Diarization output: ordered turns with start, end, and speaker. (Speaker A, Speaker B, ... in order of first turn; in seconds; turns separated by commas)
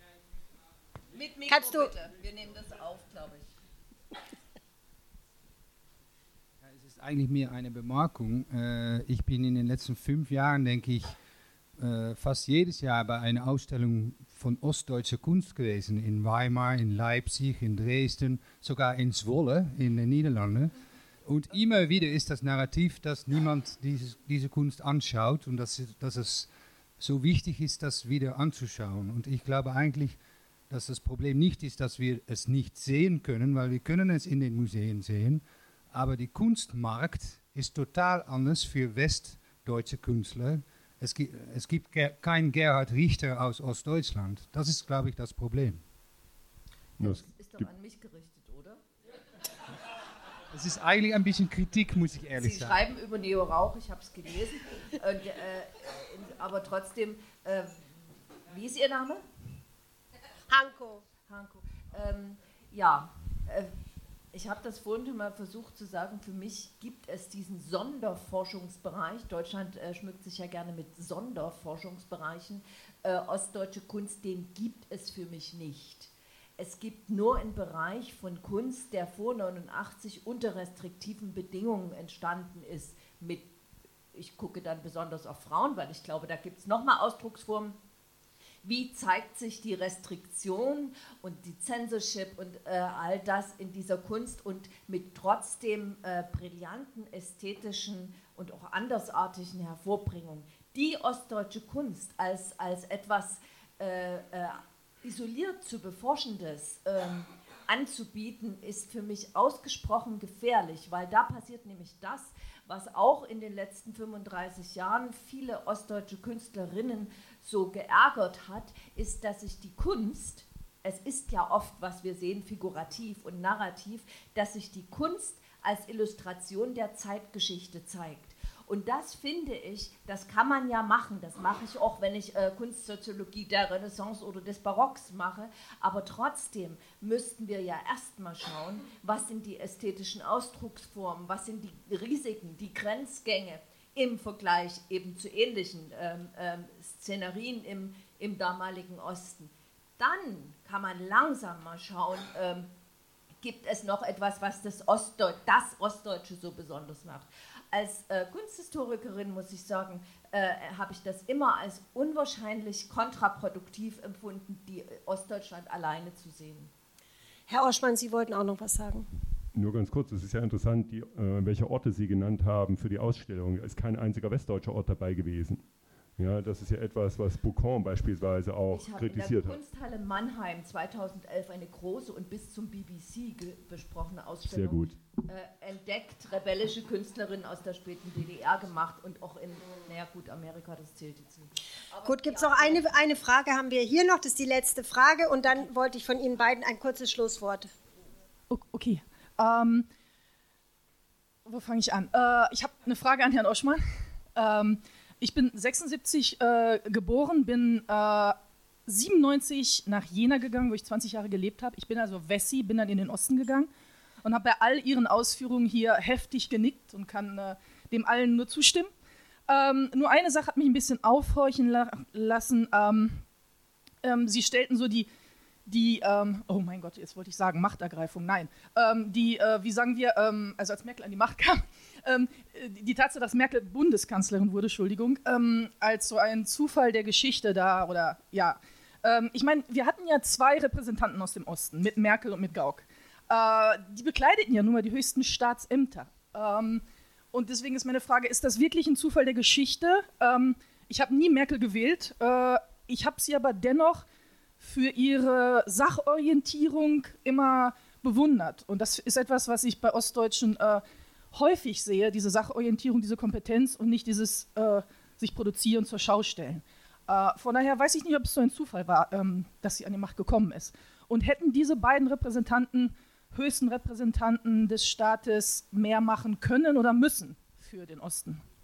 Speaker A: 1.1-3.5, Speaker B: 1.5-1.9, Speaker C: 6.7-11.2, Speaker C: 11.8-20.7, Speaker C: 21.3-30.2, Speaker C: 30.7-45.8, Speaker D: 47.0-47.7, Speaker A: 47.0-48.8, Speaker C: 50.5-52.8, Speaker A: 52.4-57.8, Speaker A: 58.5-59.2, Speaker B: 60.5-61.0, Speaker A: 61.3-63.7, Speaker A: 64.3-83.5, Speaker A: 84.1-87.8, Speaker A: 88.6-152.7, Speaker A: 153.4-166.7, Speaker B: 167.5-169.1, Speaker D: 169.5-175.6, Speaker D: 176.2-179.6, Speaker A: 178.7-192.9, Speaker D: 184.4-185.0, Speaker B: 192.1-197.7, Speaker E: 198.5-199.9, Speaker E: 201.5-203.8, Speaker E: 204.3-208.4, Speaker E: 208.9-213.7, Speaker E: 214.2-218.9, Speaker E: 219.5-223.2, Speaker E: 224.0-225.1, Speaker E: 225.7-254.1, Speaker E: 254.6-278.4